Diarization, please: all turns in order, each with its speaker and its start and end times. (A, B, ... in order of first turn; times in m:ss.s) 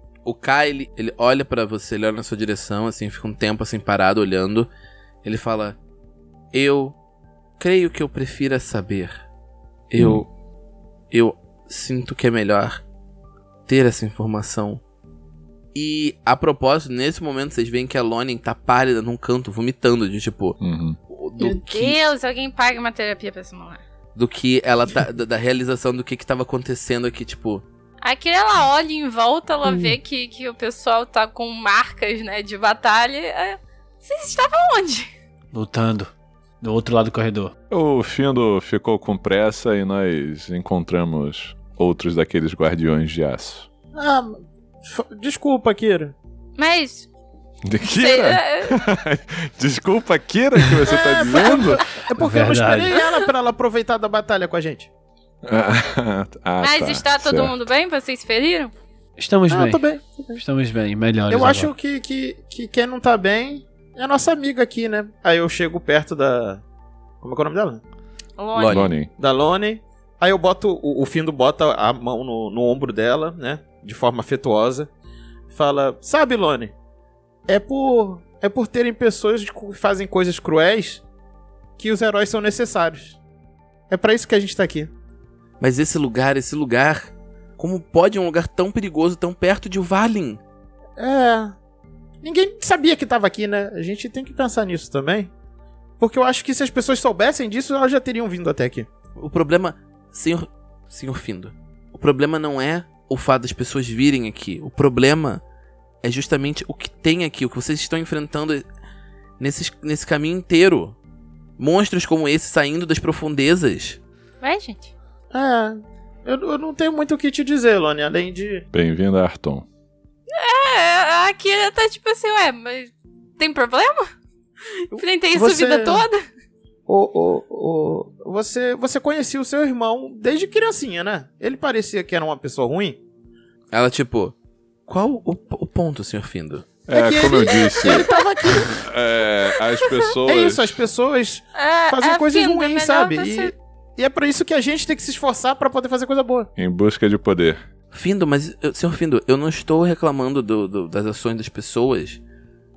0:00.2-0:04.7 A
0:05.2-0:05.8 A
0:06.5-0:06.9 A
0:07.6-0:09.1 A
0:09.9-0:10.3 A
0:10.0-0:10.2 B
0:11.1-0:12.8 A
0:13.7-0:14.8 A
0:15.7-0:20.6 A
0:20.6-0:21.0 B
0:21.1-0:22.0 A
0:21.4-0:23.8 C
0:24.2-0:27.6 A
0:28.0-0:35.1 C
0:35.5-0:37.5 D
0:37.7-0:43.7 B
0:43.9-0:46.1 E
0:46.6-0:47.1 C
0:47.6-0:51.8 B
0:47.8-0:48.8 C
0:50.8-0:54.9 E
0:52.2-0:53.0 D
0:55.4-0:57.6 B
0:56.6-0:58.7 C
0:59.2-0:59.8 D
0:59.5-1:00.4 E
1:00.3-1:01.7 D
1:01.3-1:06.6 E
1:07.2-1:07.8 E
1:08.4-1:08.9 C
1:08.5-1:08.9 A
1:08.7-1:09.1 B
1:09.2-1:14.9 E
1:15.5-1:16.7 E
1:17.5-1:21.0 E
1:21.8-1:23.2 E
1:23.9-1:24.9 E
1:25.6-1:30.4 A
1:31.0-1:31.5 E
1:32.2-1:35.3 E
1:36.0-1:38.9 E
1:39.2-1:45.4 A
1:46.0-1:48.6 A
1:49.4-1:51.0 A
1:51.6-1:54.0 A
1:54.4-1:54.9 C
1:55.3-1:58.6 E
1:58.7-1:59.7 B
2:00.3-2:04.1 C
2:04.8-2:06.2 C
2:04.9-2:06.0 E
2:06.9-2:13.0 E
2:13.7-2:14.3 A
2:14.9-2:16.7 A
2:16.9-2:18.1 B
2:16.9-2:18.8 E
2:18.8-2:20.8 B
2:19.7-2:20.2 C
2:20.2-2:26.5 E
2:21.5-2:23.5 C
2:26.6-2:27.6 B
2:27.9-2:32.2 A